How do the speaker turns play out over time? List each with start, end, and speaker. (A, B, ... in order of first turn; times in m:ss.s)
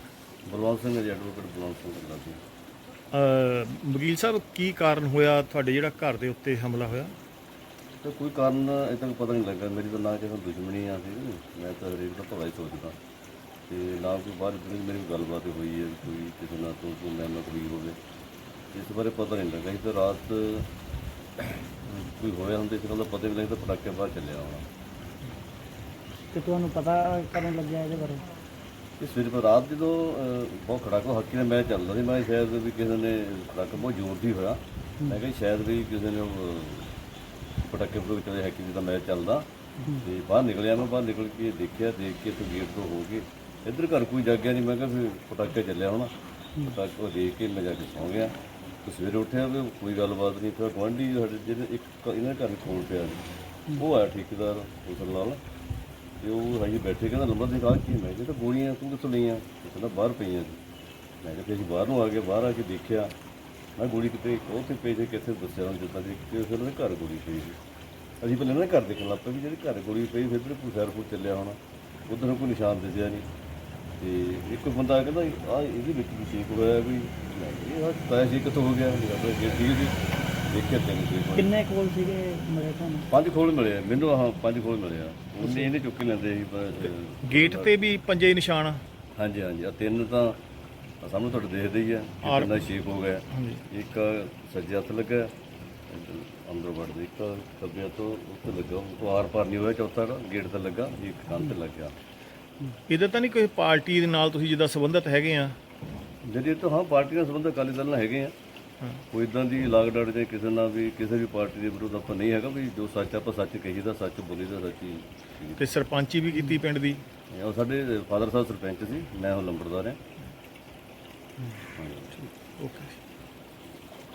0:00.4-0:02.4 A
0:03.1-0:07.1 B
0:08.0-0:13.0 A
0:13.7-0:18.0 A
0:18.7-0:20.7 A
0:21.7-0:24.7 A
0:26.3-0:28.2 C
0:29.0-0:36.9 A
0:37.6-0:39.5 A
0:40.0-0:46.1 A
0:46.7-0:53.2 A
0:53.8-0:55.4 A
0:56.2-1:00.6 A
1:01.2-1:03.1 A
1:03.8-1:07.6 A
1:08.2-1:13.3 A
1:14.0-1:21.5 A
1:21.4-1:23.0 C
1:23.1-1:27.8 A
1:27.3-1:28.8 B
1:29.2-1:30.4 A
1:31.0-1:35.3 A
1:32.2-1:32.6 B
1:33.3-1:33.6 B
1:35.9-1:41.9 A
1:42.9-1:45.6 B
1:46.2-1:48.3 A
1:49.1-1:55.6 A
1:55.6-1:57.0 B
1:57.3-2:00.0 A
2:01.8-2:02.1 A
2:02.2-2:02.9 B